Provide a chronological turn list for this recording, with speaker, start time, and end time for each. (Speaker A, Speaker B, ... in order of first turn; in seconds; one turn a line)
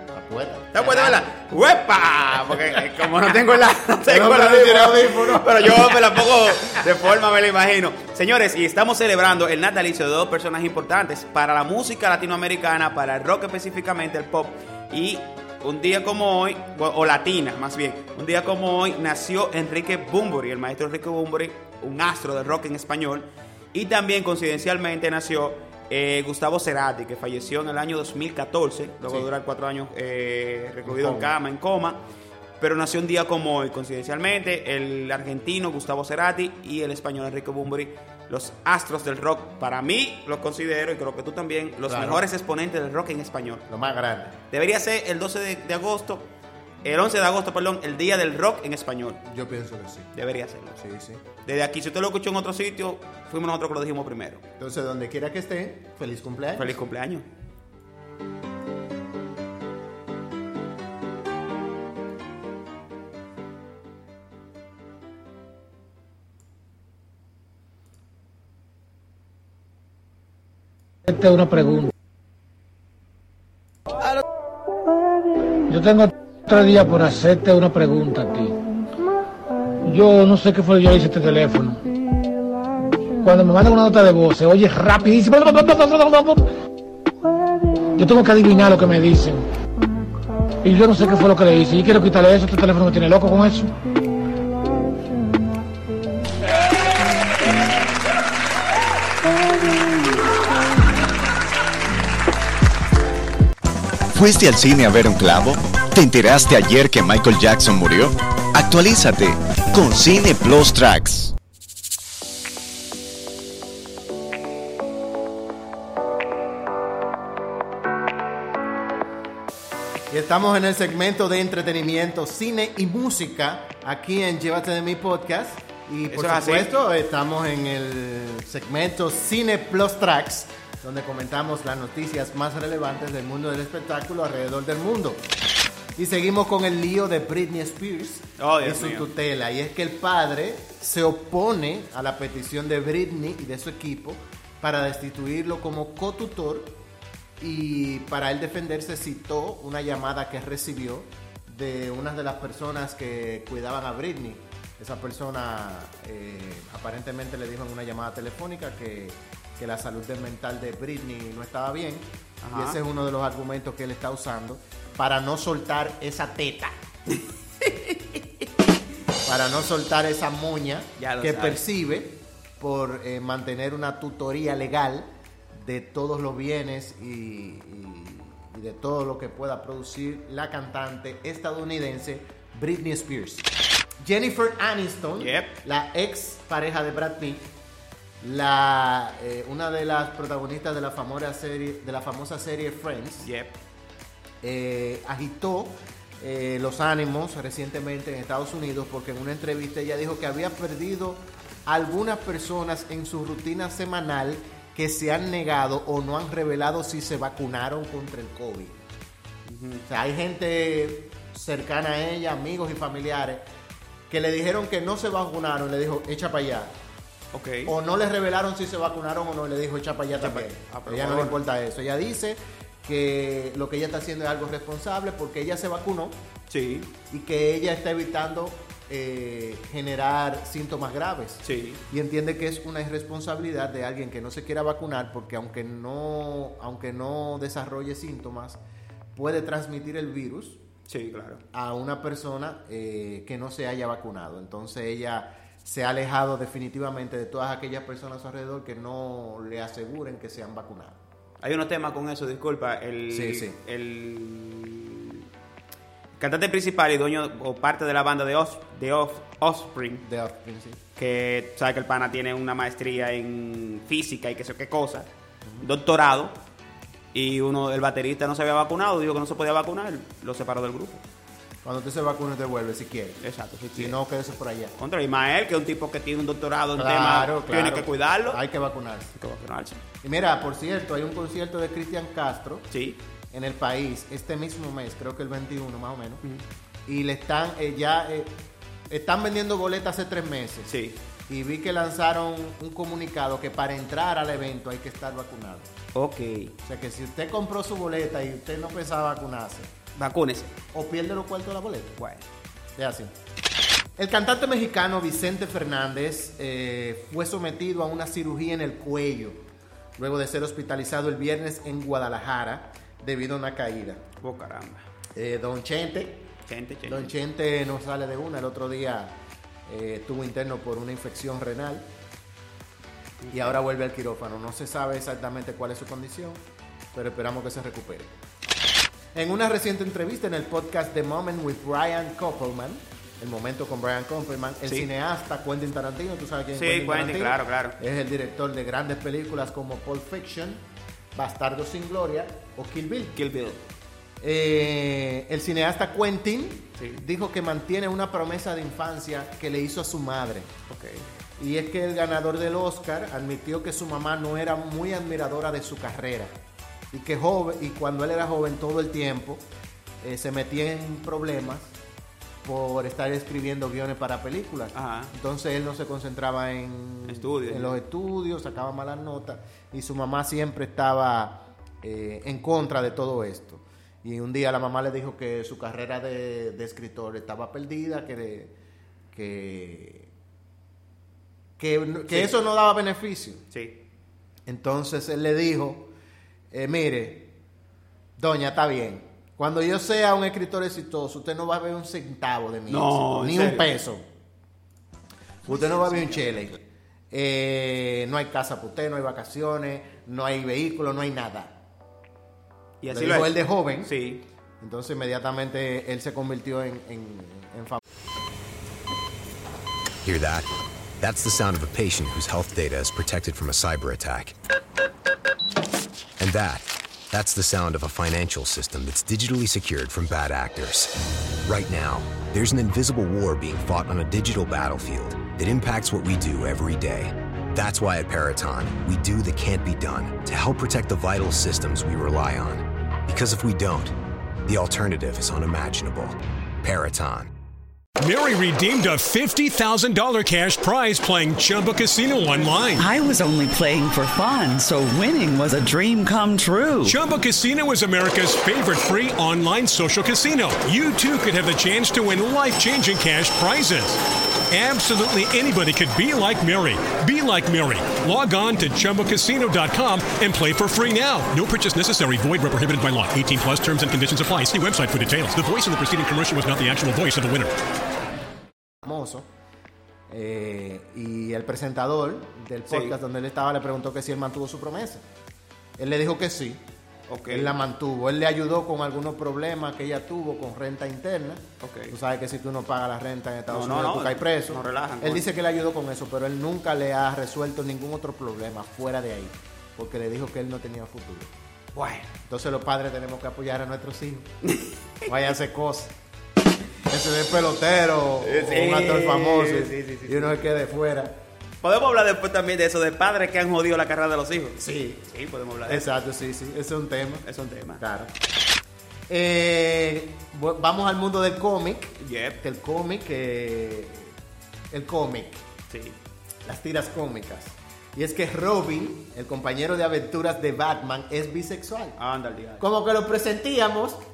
Speaker A: 0.1-1.3
Speaker B: 0.7-32.0
Speaker A: 4.1-6.1
Speaker A: 30.8-31.3
Speaker B: 32.6-43.6
Speaker A: 41.9-42.3
Speaker A: 43.7-44.4
Speaker B: 44.5-46.3
Speaker B: 46.8-49.2
Speaker A: 49.2-50.1
Speaker B: 50.1-50.8
Speaker A: 50.8-51.2
Speaker B: 51.4-54.4
Speaker A: 54.6-56.8
Speaker B: 56.6-57.2
Speaker C: 71.0-71.9
Speaker C: 75.7-78.6
Speaker C: 79.8-81.8
Speaker C: 83.2-86.5
Speaker C: 87.9-89.5
Speaker C: 90.6-93.8
Speaker D: 104.1-111.3
Speaker A: 120.1-135.2
Speaker B: 126.1-126.7
Speaker A: 135.9-146.8
Speaker B: 138.4-139.1
Speaker A: 147.4-166.8
Speaker B: 162.4-162.8
Speaker B: 167.6-168.2
Speaker A: 169.2-183.5
Speaker B: 171.0-171.6
Speaker A: 184.0-187.5
Speaker B: 185.2-185.5
Speaker A: 188.2-193.3
Speaker B: 193.2-193.5
Speaker A: 194.4-208.8
Speaker B: 209.4-209.9
Speaker A: 209.9-213.4
Speaker A: 214.1-216.7
Speaker B: 217.3-217.7
Speaker A: 217.7-226.2
Speaker B: 220.2-221.4
Speaker B: 226.5-226.9
Speaker A: 227.1-238.6
Speaker B: 231.4-231.8
Speaker A: 239.1-240.6
Speaker B: 240.9-241.4
Speaker A: 241.5-251.0
Speaker B: 251.4-255.2
Speaker A: 253.1-253.6
Speaker B: 256.2-260.0
Speaker A: 260.0-260.8
Speaker B: 260.9-265.1
Speaker B: 265.6-266.4
Speaker B: 267.1-271.0
Speaker A: 271.6-273.2
Speaker B: 273.2-274.0
Speaker A: 273.7-274.7
Speaker B: 274.8-278.4
Speaker A: 276.7-279.1
Speaker B: 279.1-279.8
Speaker A: 280.0-282.7
Speaker B: 282.7-283.0
Speaker A: 283.3-286.2
Speaker A: 286.9-290.7
Speaker B: 290.7-291.0
Speaker A: 291.3-295.7
Speaker B: 295.9-296.5
Speaker A: 296.6-299.7
Speaker B: 299.9-300.5
Speaker A: 300.7-302.0
Speaker B: 302.0-302.2
Speaker A: 302.8-303.1
Speaker A: 304.0-309.4
Speaker A: 310.0-314.0
Speaker B: 314.2-314.8
Speaker A: 315.1-316.3
Speaker B: 316.5-317.1
Speaker A: 316.8-321.9
Speaker B: 323.2-323.6
Speaker A: 323.3-326.4
Speaker A: 326.9-328.1
Speaker A: 329.1-343.2
Speaker B: 336.5-337.8
Speaker B: 343.1-343.6
Speaker A: 344.2-350.5
Speaker B: 346.8-347.0
Speaker B: 350.7-351.0
Speaker A: 351.4-356.3
Speaker A: 356.9-359.4
Speaker A: 360.0-361.7
Speaker A: 362.4-378.5
Speaker B: 364.7-365.1
Speaker B: 367.1-367.7
Speaker A: 379.1-380.1
Speaker A: 381.6-383.4
Speaker B: 383.5-383.8
Speaker A: 384.4-385.9
Speaker A: 386.5-387.3
Speaker A: 388.2-394.0
Speaker B: 392.7-393.7
Speaker A: 395.4-396.6
Speaker B: 395.5-396.4
Speaker A: 397.1-401.6
Speaker B: 402.8-404.2
Speaker A: 402.9-403.9
Speaker A: 404.6-407.8
Speaker E: 410.0-414.3
Speaker E: 416.2-420.9
Speaker E: 421.4-433.9
Speaker E: 434.4-437.3
Speaker F: 438.0-442.8
Speaker G: 442.8-447.0
Speaker F: 446.8-467.5
Speaker A: 468.8-469.3
Speaker A: 470.1-475.0
Speaker B: 472.7-472.9
Speaker A: 475.8-476.6
Speaker B: 477.1-477.6
Speaker A: 477.3-491.3
Speaker B: 481.6-481.9
Speaker B: 483.5-485.3
Speaker B: 491.7-492.1
Speaker A: 492.3-494.3
Speaker B: 494.4-495.1
Speaker A: 495.1-495.9
Speaker A: 496.9-501.2
Speaker B: 498.2-500.4
Speaker B: 501.6-505.9
Speaker A: 504.6-505.0
Speaker A: 505.7-507.3
Speaker B: 507.2-507.8
Speaker A: 507.8-508.1
Speaker A: 509.1-514.1
Speaker B: 512.0-512.4
Speaker A: 514.7-515.5
Speaker B: 515.7-516.0
Speaker A: 516.4-522.0
Speaker B: 522.0-522.6
Speaker A: 522.6-524.0